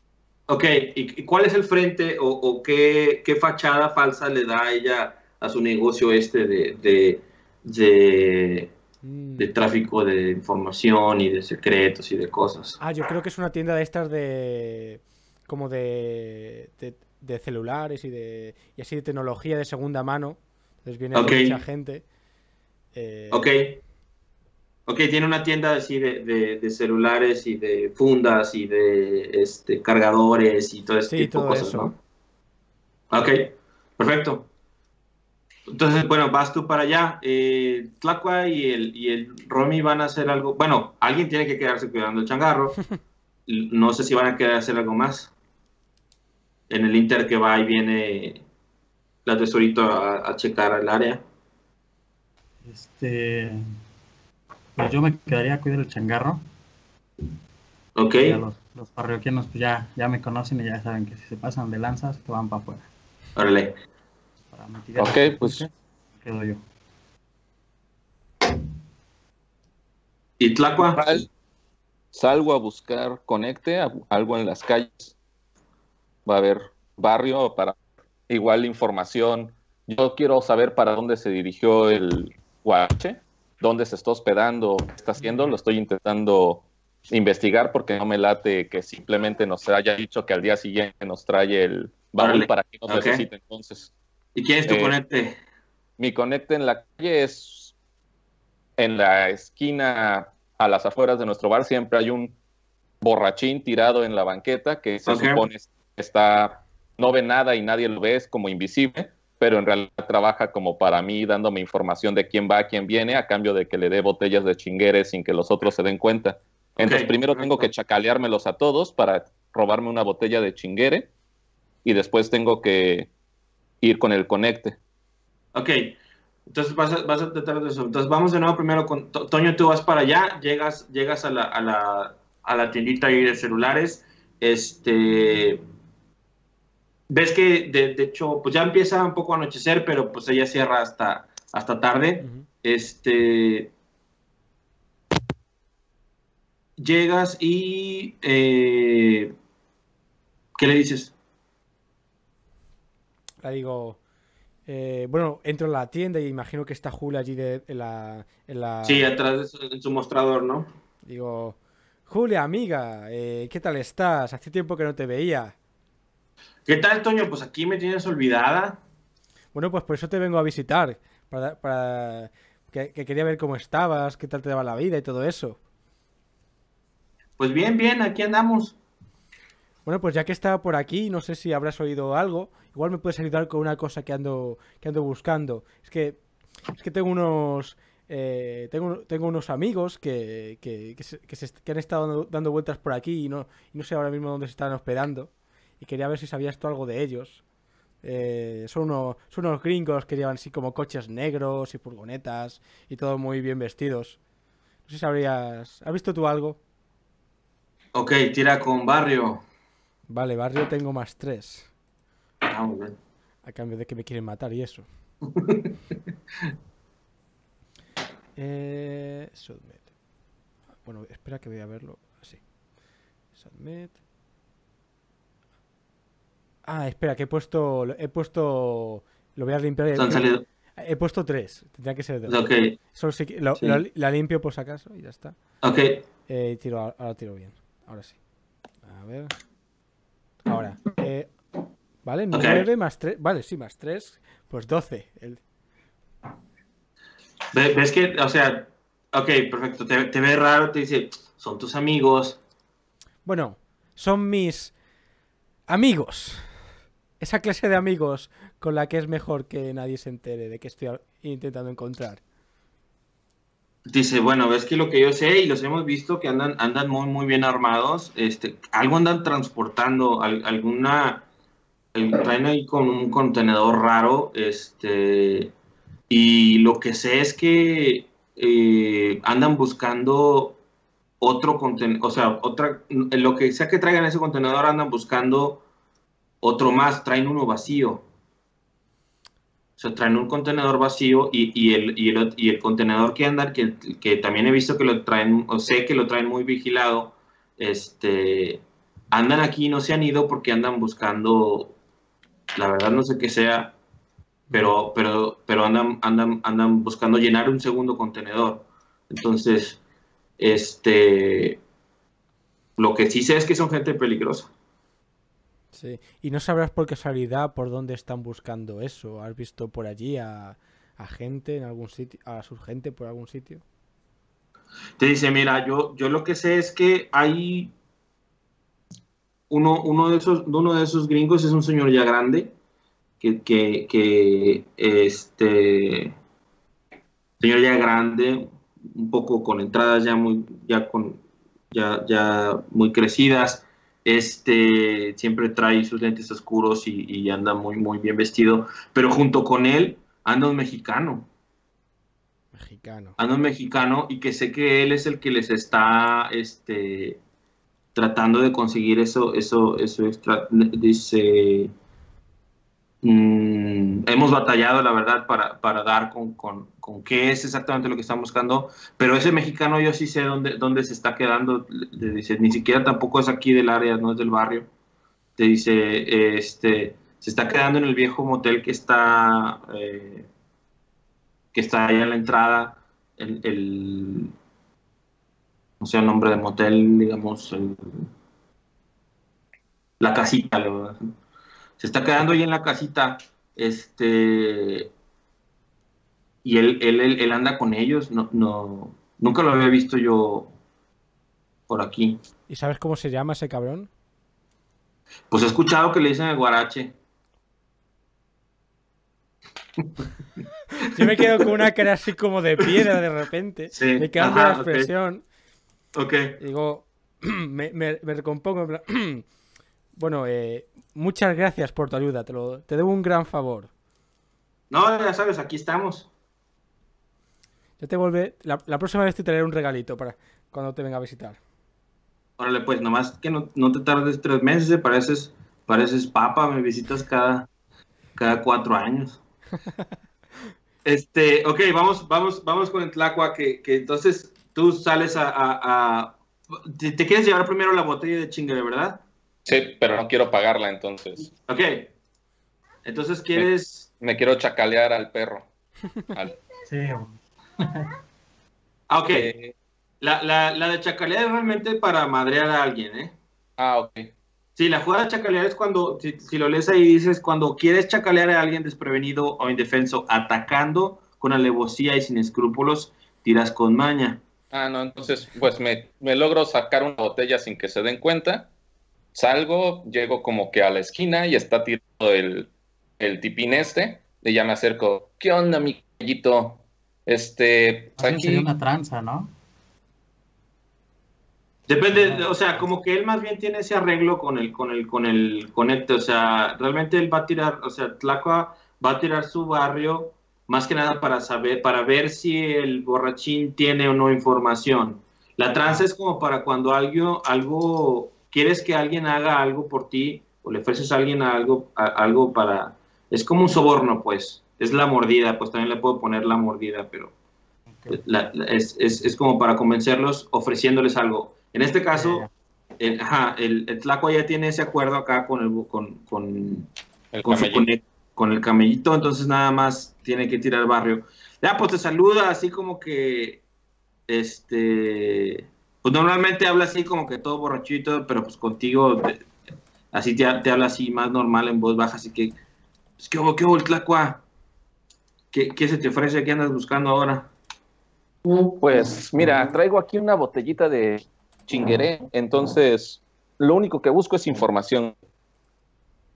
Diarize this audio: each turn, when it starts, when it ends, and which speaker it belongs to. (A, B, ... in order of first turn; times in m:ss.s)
0:00.5-0:08.7 A
0:09.0-0:09.5 B
0:09.4-0:12.8 A
0:12.8-0:22.0 B
0:21.1-0:21.6 A
0:22.9-0:23.5 B
0:23.3-0:23.8 A
0:24.9-0:32.0 A
0:31.1-0:31.9 B
0:33.1-0:34.5 A
0:35.7-0:42.8 A
0:43.5-0:45.3 A
0:46.7-0:48.4 A
0:49.2-0:51.2 A
0:52.6-0:53.7 C
0:54.8-0:56.4 C
0:58.0-0:58.4 A
0:58.2-1:02.8 C
1:03.4-1:03.7 A
1:04.5-1:06.6 C
1:05.0-1:05.6 D
1:10.4-1:11.2 A
1:10.8-1:11.3 D
1:12.1-1:15.1 D
1:16.2-1:17.8 D
1:18.3-1:33.9 D
1:32.2-1:33.2 A
1:34.3-1:35.4 A
1:34.7-1:34.9 D
1:36.0-1:37.7 D
1:38.8-1:42.3 D
1:43.0-2:01.1 D
1:45.0-1:45.4 A
1:56.8-1:57.7 A
2:01.8-2:03.1 D
2:03.8-2:04.8 D
2:05.5-2:15.6 A
2:17.1-2:23.7 A
2:26.8-2:29.3 A
2:30.6-2:31.1 A
2:33.4-2:34.0 B
2:34.7-2:39.1 B
2:38.8-2:40.7 A
2:41.0-2:45.5 B
2:46.6-2:48.8 A
2:49.5-2:55.6 B
2:57.4-2:58.7 A
2:59.8-3:06.2 B
3:06.7-3:17.4 B
3:18.0-3:24.2 B
3:24.8-3:26.6 B
3:27.9-3:29.4 A
3:30.1-3:31.7 B
3:32.4-3:33.0 A
3:33.4-3:34.8 B
3:35.3-3:35.7 A
3:38.4-3:39.8 B
3:40.8-3:42.4 B
3:43.4-3:44.0 B
3:46.6-3:52.4 B
3:49.9-3:50.4 A
3:52.3-3:52.8 A
3:52.9-3:55.4 B
3:55.6-3:56.0 A
3:56.3-3:58.2 B
3:58.8-3:59.3 B
4:00.4-4:01.3 B
4:02.0-4:05.4 B
4:02.3-4:02.6 A
4:07.5-4:12.4 A
4:13.2-4:14.7 B
4:15.7-4:16.5 B
4:17.2-4:22.2 B
4:23.9-4:31.2 A
4:31.9-4:35.5 A
4:36.1-4:40.6 A
4:41.2-4:45.6 A
4:46.4-4:48.0 A
4:49.8-5:01.7 A
5:02.6-5:03.7 A
5:04.5-5:09.8 A
5:10.4-5:11.6 A
5:12.8-5:14.5 A
5:15.7-5:23.6 B
5:25.0-5:27.7 A
5:29.5-5:32.5 A
5:33.2-5:36.1 A
5:37.4-5:41.2 A
5:41.7-5:51.3 A
5:52.5-5:53.2 B
5:53.2-5:57.2 A
5:57.9-6:01.7 A
6:03.0-6:14.7 A
6:15.4-6:20.3 A
6:21.5-6:24.3 A
6:25.8-6:28.1 A
6:30.0-6:31.1 A
6:31.8-6:34.9 A
6:36.4-6:40.5 A
6:41.7-6:42.2 A
6:42.5-6:43.9 B
6:45.3-6:46.9 A
6:50.9-6:55.2 B
6:53.7-6:54.9 A
6:55.9-6:56.4 A
6:56.4-6:59.2 B
7:00.0-7:03.7 B
7:04.7-7:06.1 A
7:07.8-7:11.4 B
7:12.4-7:17.5 A
7:18.2-7:19.2 A
7:20.8-7:29.0 A
7:29.4-7:31.3 D
7:31.5-7:31.9 A
7:32.8-7:33.9 A
7:34.0-7:35.4 D
7:36.7-7:37.9 C
7:38.9-7:39.3 A
7:39.1-7:39.5 D
7:40.0-7:43.1 A
7:43.6-7:44.1 D
7:44.6-7:54.2 A
7:54.5-7:58.5 D
7:59.1-8:08.5 D
8:08.0-8:09.3 C
8:11.7-8:37.1 A
8:11.9-8:12.7 C
8:37.7-8:38.0 C
8:37.9-8:42.3 A
8:41.9-8:42.3 C
8:42.8-8:46.7 A
8:47.1-8:47.7 D
8:47.2-8:53.4 A
8:54.1-8:59.3 A
8:59.9-9:02.4 A
9:03.0-9:04.2 A
9:05.3-9:07.3 A
9:08.4-9:14.9 D